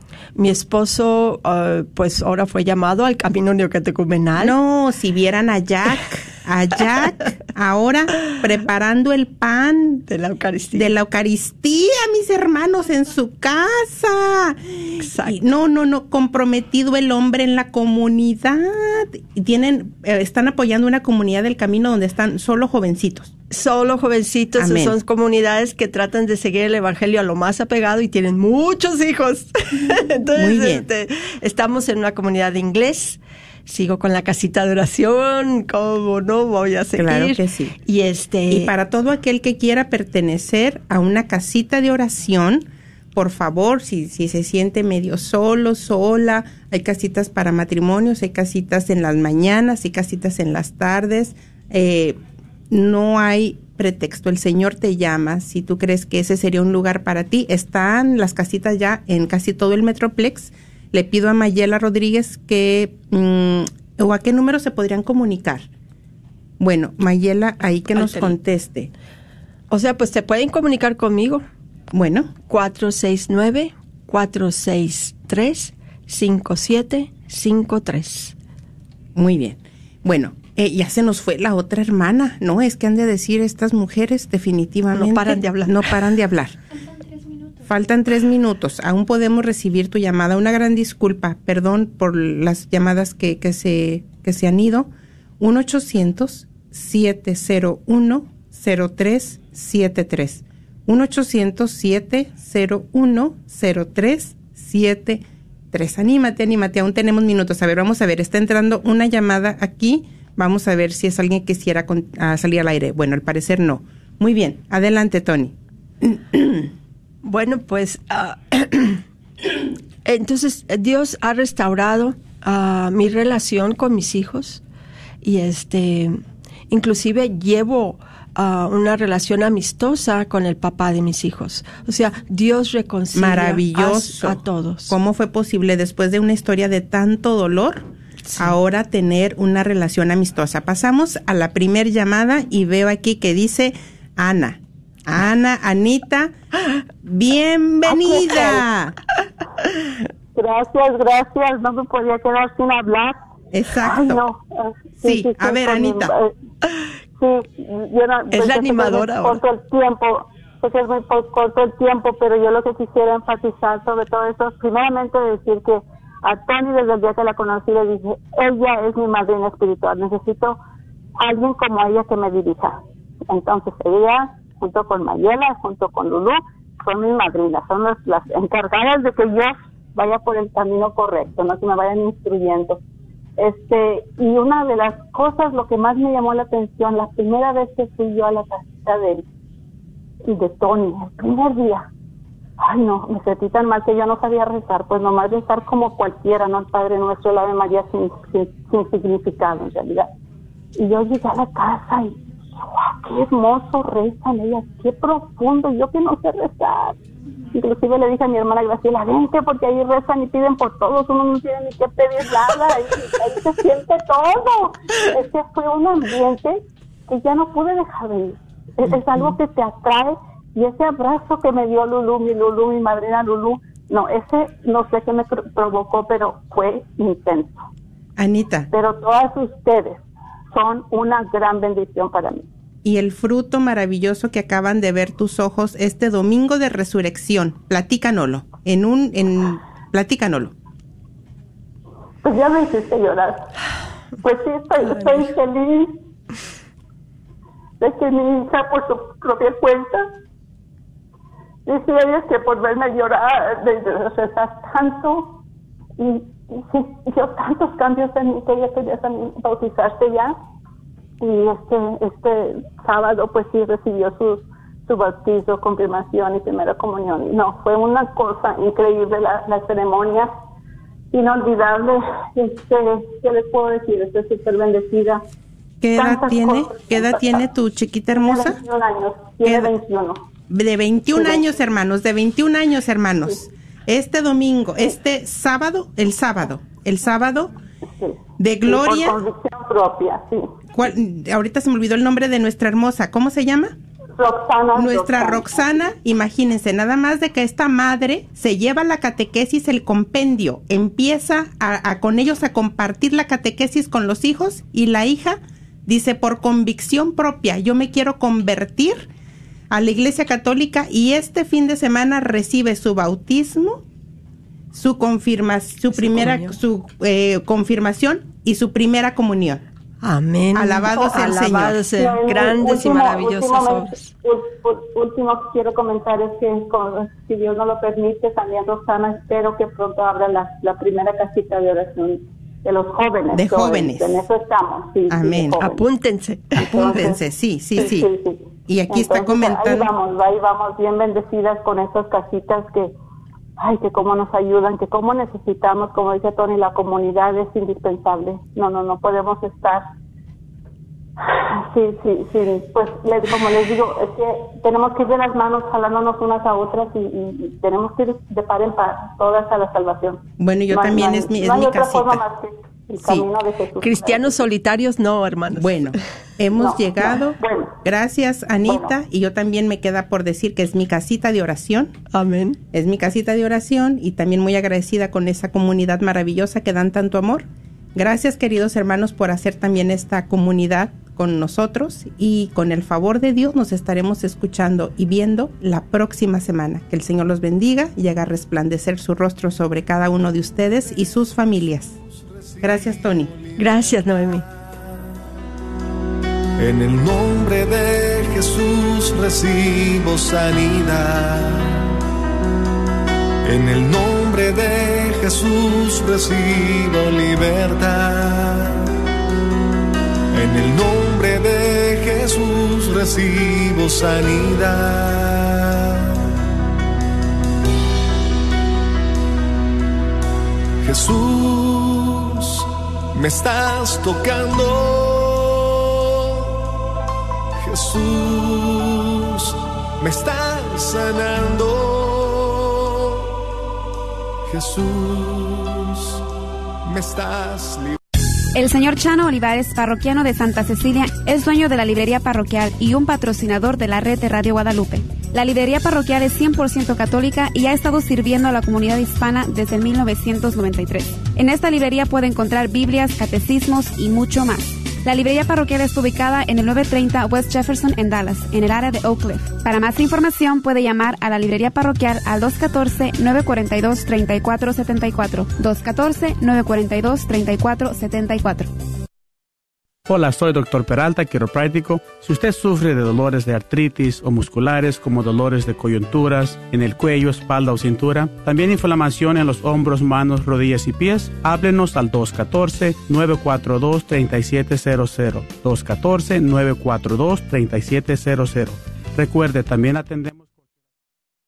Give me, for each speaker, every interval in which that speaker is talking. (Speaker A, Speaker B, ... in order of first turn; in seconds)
Speaker A: 0.3-4.5, 10.1-10.9, 15.0-15.4, 23.5-38.7, 67.9-68.3, 69.7-71.4, 72.5-78.3, 84.9-86.0, 117.2-124.6, 125.2-134.9, 138.2-138.5, 158.3-159.4, 315.9-316.6, 320.0-324.1, 335.6-336.9, 363.8-365.8, 372.1-372.6, 393.6-394.4
Speaker B: 4.4-10.0, 10.7-23.3, 24.6-25.0, 30.4-30.9, 37.0-37.7, 38.5-52.2, 52.7-65.7, 66.6-68.9, 71.9-72.3, 79.1-86.6, 87.6-116.7, 133.1-146.3, 147.0-149.0, 153.5-154.3, 155.0-156.1, 228.2-228.7, 232.8-240.5, 275.8-278.6, 279.4-279.7, 280.5-287.5, 288.4-289.2, 290.7-293.7, 294.7-309.1, 309.7-313.8, 314.7-319.6, 320.5-321.8, 333.3-334.2, 335.1-335.6, 336.7-338.1, 338.7-339.9, 360.4-362.2, 363.0-363.3, 365.6-371.9, 372.7-392.0, 392.6-393.3
Speaker C: 147.8-148.6, 150.3-153.2, 153.8-156.3, 157.2-170.6, 171.2-182.8, 183.4-189.2, 190.3-191.9, 192.6-200.1, 200.8-207.0, 207.5-227.6, 228.7-232.4, 242.2-243.4, 244.2-246.0, 247.8-250.1, 251.7-255.4, 256.0-260.4, 261.2-270.3, 271.1-275.2, 276.0-277.4, 278.1-280.2, 288.0-290.5, 294.2-295.6, 321.9-335.9, 336.5-337.2, 337.8-342.9, 343.6-349.8, 351.2-364.4, 366.6-367.8, 368.6-368.9
Speaker D: 392.6-393.8, 396.6-401.9, 403.4-408.9, 410.3-416.3, 420.8-426.6, 427.6-433.3, 434.5-436.2, 436.9-438.0
Speaker E: 438.5-468.7
Speaker F: 470.1-490.5